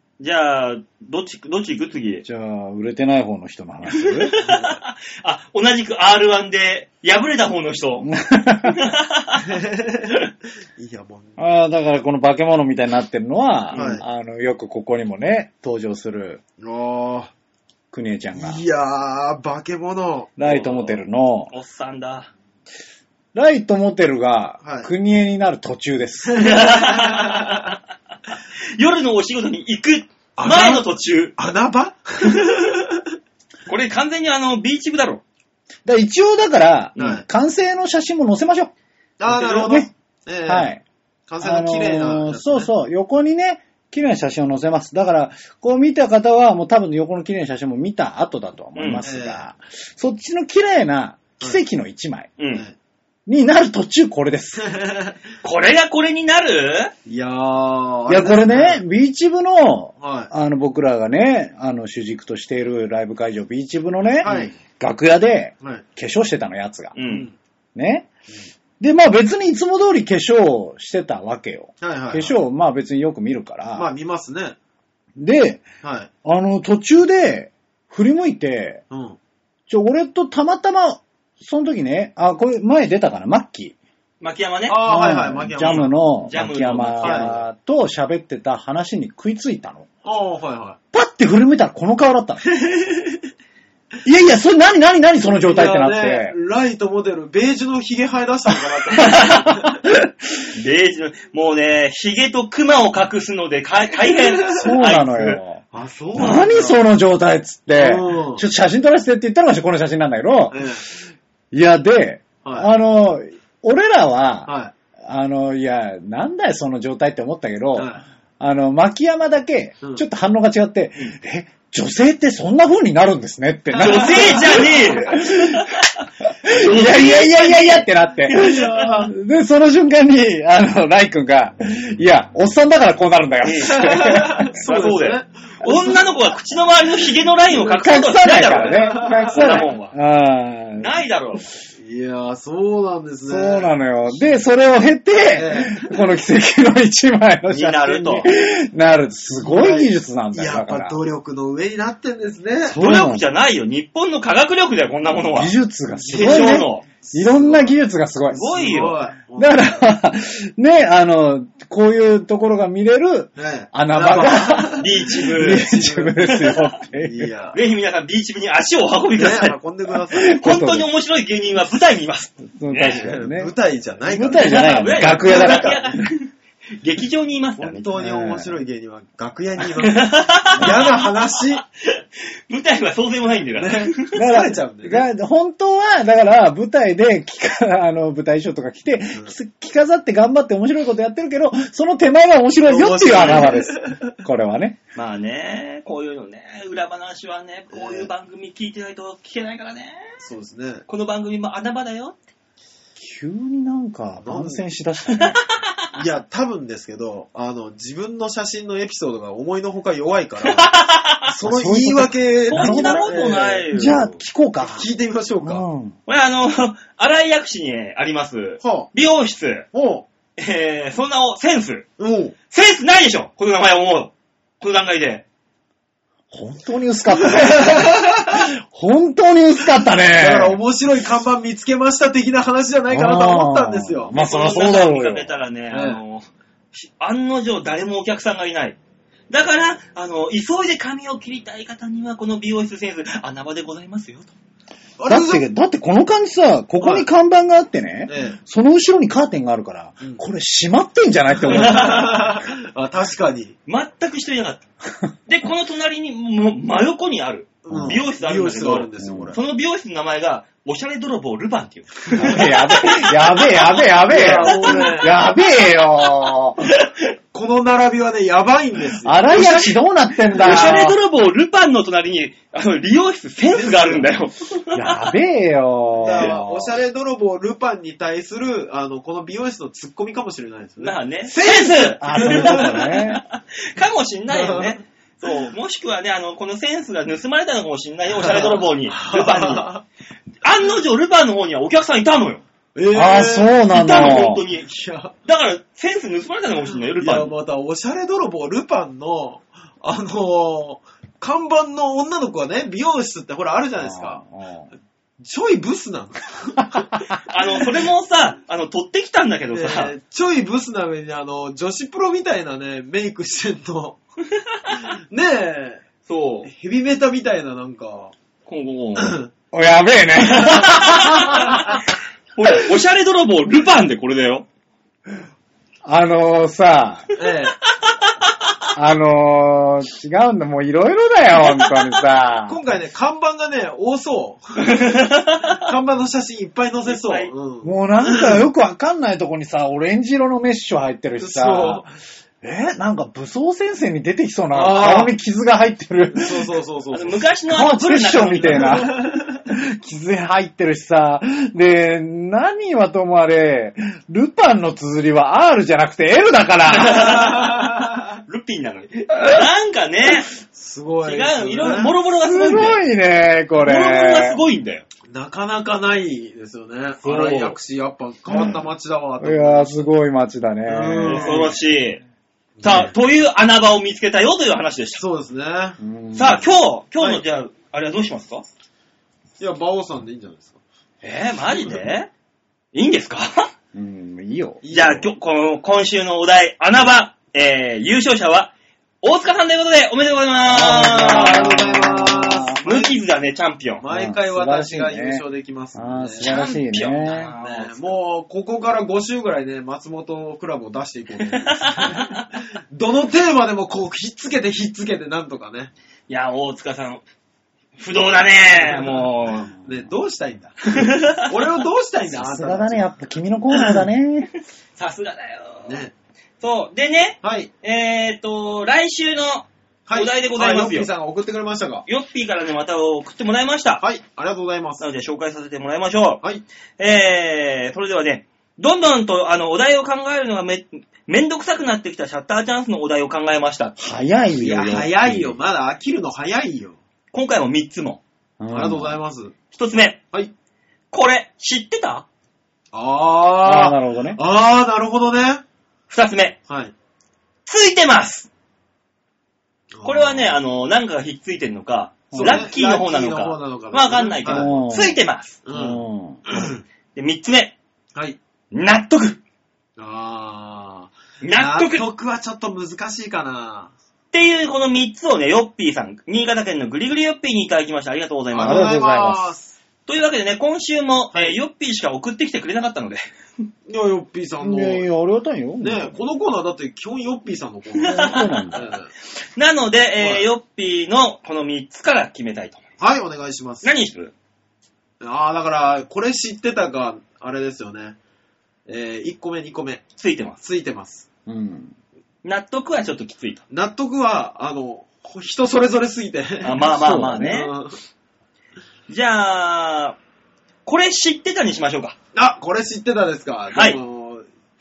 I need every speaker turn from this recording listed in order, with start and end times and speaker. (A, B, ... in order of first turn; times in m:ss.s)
0:00.2-0:02.2 A
0:02.2-0:04.3 B
0:03.9-0:08.1 A
0:04.4-0:04.8 C
0:08.0-0:08.8 B
0:08.6-0:09.4 A
0:09.4-0:11.4 C
0:11.4-0:16.4 B
0:13.7-0:14.0 A
0:13.7-0:14.0 C
0:16.6-0:17.3 C
0:17.9-0:18.6 B
0:18.3-0:20.3 C
0:20.4-0:21.5 B
0:20.4-0:22.3 A
0:23.3-0:26.5 B
0:24.6-0:24.9 C
0:26.3-0:27.7 C
0:26.4-0:27.8 A
0:28.8-0:31.4 A
0:30.4-0:33.0 C
0:33.7-0:35.2 A
0:35.8-0:38.7 B
0:37.0-0:37.2 C
0:39.2-0:40.7 C
0:39.3-0:39.9 B
0:40.4-0:40.8 B
0:41.3-0:42.7 C
0:41.4-0:52.3 B
0:48.8-0:49.0 A
0:49.0-0:49.4 C
0:52.4-0:52.6 A
0:53.2-0:54.6 B
0:54.6-0:55.2 C
0:55.4-0:56.9 A
0:57.1-0:58.8 C
0:58.1-1:06.9 B
1:00.0-1:00.3 C
1:04.2-1:04.5 C
1:04.2-1:04.5 A
1:06.9-1:07.3 A
1:07.0-1:07.3 C
1:07.7-1:08.1 B
1:08.8-1:13.9 B
1:11.8-1:12.4 C
1:13.8-1:14.6 C
1:15.2-1:15.6 B
1:15.8-1:16.1 C
1:16.2-1:18.8 B
1:18.9-1:19.2 C
1:19.7-1:23.8 B
1:24.2-1:24.8 A
1:24.7-1:25.9 C
1:24.8-1:29.9 B
1:25.6-1:27.4 A
1:27.0-1:27.3 C
1:30.0-1:30.8 C
1:30.9-1:32.6 B
1:32.4-1:33.2 C
1:34.0-1:36.3 B
1:35.3-1:39.7 C
1:38.9-1:39.5 A
1:39.1-1:39.7 B
1:40.4-1:45.4 A
1:44.5-1:45.6 B
1:45.7-1:46.8 C
1:46.2-1:50.6 B
1:47.7-1:48.4 C
1:50.5-1:51.0 C
1:51.5-1:54.5 B
1:52.4-1:52.7 C
1:54.4-1:54.7 C
1:55.0-2:05.7 B
1:57.7-1:58.0 C
2:03.8-2:04.6 C
2:03.8-2:08.8 A
2:06.2-2:14.6 B
2:08.4-2:09.0 C
2:13.4-2:14.0 A
2:13.7-2:16.0 C
2:14.6-2:20.0 A
2:15.6-2:16.0 B
2:17.5-2:21.0 B
2:18.6-2:19.7 C
2:20.8-2:21.4 A
2:21.8-2:24.4 C
2:23.2-2:31.0 B
2:25.3-2:26.0 C
2:27.5-2:28.3 A
2:29.4-2:32.8 C
2:32.6-2:33.2 B
2:32.8-2:35.5 A
2:35.1-2:38.5 B
2:36.0-2:37.7 C
2:36.1-2:36.9 A
2:38.3-2:39.0 A
2:38.5-2:39.9 C
2:39.4-2:47.3 B
2:43.4-2:47.6 C
2:44.6-2:45.7 A
2:46.3-2:46.6 A
2:47.5-2:49.6 A
2:49.1-2:50.4 C
2:50.1-2:53.1 A
2:50.1-2:50.9 B
2:52.5-2:53.5 B
2:52.9-2:55.9 C
2:54.0-2:56.0 B
2:54.4-2:56.2 A
2:56.8-2:57.9 A
2:57.6-3:01.6 C
2:57.9-2:58.5 B
2:59.8-3:01.1 A
3:01.8-3:04.2 A
3:03.6-3:05.0 C
3:04.2-3:14.8 B
3:12.6-3:14.2 C
3:13.1-3:13.5 A
3:14.9-3:20.0 A
3:17.7-3:18.1 C
3:20.2-3:20.8 C
3:20.9-3:22.2 A
3:23.0-3:25.4 B
3:24.2-3:24.6 C
3:25.9-3:30.7 C
3:30.4-3:31.3 A
3:31.2-3:33.6 C
3:31.4-3:33.1 B
3:32.5-3:34.2 A
3:33.7-3:34.9 B
3:34.6-3:35.6 C
3:35.4-3:36.0 B
3:36.1-3:39.6 A
3:38.6-3:38.9 C
3:39.7-3:40.0 C
3:40.4-3:41.9 A
3:42.0-3:42.3 C
3:42.5-3:45.2 A
3:46.3-3:50.6 B
3:47.2-3:48.4 C
3:50.1-3:54.1 C
3:52.9-3:55.4 B
3:54.1-3:58.8 A
3:55.7-3:56.0 C
3:59.3-4:04.3 A
4:05.0-4:05.4 C
4:05.1-4:12.2 B
4:06.8-4:07.1 C
4:08.1-4:08.4 C
4:11.5-4:12.2 A
4:11.5-4:13.6 C
4:13.7-4:14.6 A
4:15.3-4:25.0 A
4:17.6-4:19.4 C
4:17.7-4:18.0 B
4:19.0-4:19.4 B
4:22.2-4:26.6 B
4:24.1-4:25.2 C
4:26.6-4:27.1 A
4:27.3-4:29.7 C
4:29.0-4:31.0 B
4:29.3-4:29.7 A
4:30.4-4:35.0 A
4:30.4-4:30.8 C
4:33.5-4:34.1 C
4:34.7-4:36.8 B
4:36.0-4:42.8 C
4:40.8-4:49.7 A
4:42.0-4:43.2 B
4:44.3-4:44.8 C
4:48.2-4:49.8 C
4:50.4-4:52.4 A
4:52.7-4:55.1 C
4:52.9-4:54.4 B
4:53.7-4:54.7 A
4:55.2-4:57.3 A
4:57.0-5:04.2 C
5:03.8-5:04.7 B
5:05.2-5:07.0 C
5:07.3-5:09.9 A
5:09.5-5:14.0 C
5:14.8-5:15.8 C
5:16.0-5:16.5 A
5:16.4-5:18.1 C
5:18.4-5:19.2 A
5:19.0-5:19.3 C
5:19.5-5:21.7 B
5:20.2-5:21.8 A
5:22.3-5:24.4 A
5:25.8-5:27.1 B
5:27.2-5:27.6 C
5:28.7-5:32.6 B
5:31.4-5:32.0 A
5:32.5-5:38.4 C
5:34.7-5:35.6 A
5:36.8-5:37.3 A
5:37.6-5:41.9 B
5:41.2-5:41.9 C
5:42.4-5:46.5 B
5:44.5-5:45.1 C
5:46.1-5:47.3 C
5:46.9-5:48.8 A
5:47.5-5:57.2 B
5:48.4-5:49.4 C
5:56.7-5:57.7 A
5:56.8-5:58.2 C
5:58.2-6:00.3 A
6:00.4-6:01.9 C
6:01.0-6:02.8 A
6:02.2-6:04.4 B
6:03.6-6:04.8 A
6:05.1-6:09.8 C
6:07.0-6:07.6 A
6:08.3-6:08.6 B
6:09.2-6:11.5 B
6:10.6-6:11.5 C
6:11.0-6:12.0 A
6:12.6-6:12.9 C
6:12.6-6:15.0 A
6:15.0-6:15.8 C
6:15.8-6:16.4 B
6:16.2-6:18.4 A
6:19.4-6:20.6 C
6:21.0-6:22.1 A
6:22.7-6:23.5 A
6:23.7-6:24.6 B
6:24.6-6:25.1 C
6:24.7-6:31.6 A
6:30.5-6:32.6 B
6:30.9-6:32.9 C
6:32.6-6:33.8 A
6:33.8-6:36.3 C
6:33.9-6:35.2 B
6:35.7-6:37.3 B
6:36.2-6:38.0 A
6:37.2-6:45.7 C
6:41.3-6:42.2 A
6:46.1-6:47.0 A
6:47.8-6:49.5 A
6:48.6-6:52.8 C
6:50.6-6:51.5 A
6:52.1-6:54.3 B
6:54.8-6:55.8 A
6:55.6-6:55.9 C
6:56.4-7:00.9 A
6:57.2-6:57.5 C
6:59.9-7:01.8 C
7:01.9-7:03.8 A
7:03.8-7:04.8 C
7:04.8-7:06.2 A
7:06.8-7:13.8 A
7:13.8-7:15.4 B
7:14.4-7:16.8 C
7:17.1-7:18.0 A
7:18.4-7:19.0 B
7:18.5-7:19.3 C
7:19.5-7:20.0 A
7:20.9-7:22.0 A
7:22.7-7:25.4 C
7:23.4-7:24.2 B
7:25.9-7:26.4 A
7:26.5-7:26.7 C
7:27.4-7:28.3 A
7:29.7-7:30.4 C
7:29.8-7:35.4 A
7:32.1-7:32.5 B
7:32.1-7:34.5 C
7:34.2-7:35.0 B
7:35.4-7:36.6 C
7:35.5-7:36.2 B
7:36.9-7:37.6 A
7:38.5-7:39.2 A
7:39.8-7:43.7 C
7:41.2-7:41.8 A
7:44.1-7:48.8 A
7:48.3-7:49.5 C
7:48.4-7:49.3 B
7:49.8-7:53.0 A
7:51.1-7:51.4 C
7:53.7-7:54.8 C
7:54.4-7:56.0 B
7:55.6-7:58.9 C
7:57.8-7:58.6 A
7:57.9-7:58.7 B
7:59.4-8:02.6 A
8:00.0-8:00.3 C
8:02.8-8:03.7 C
8:03.6-8:04.1 A
8:05.0-8:08.0 C
8:08.7-8:09.8 C
8:10.0-8:10.4 A
8:10.4-8:11.0 C
8:11.3-8:11.7 B
8:12.2-8:13.4 A
8:13.5-8:16.7 C
8:16.4-8:17.5 A
8:16.6-8:17.4 B
8:17.2-8:17.8 C
8:18.9-8:20.0 A
8:20.6-8:22.0 A
8:22.1-8:24.2 C
8:23.5-8:23.8 A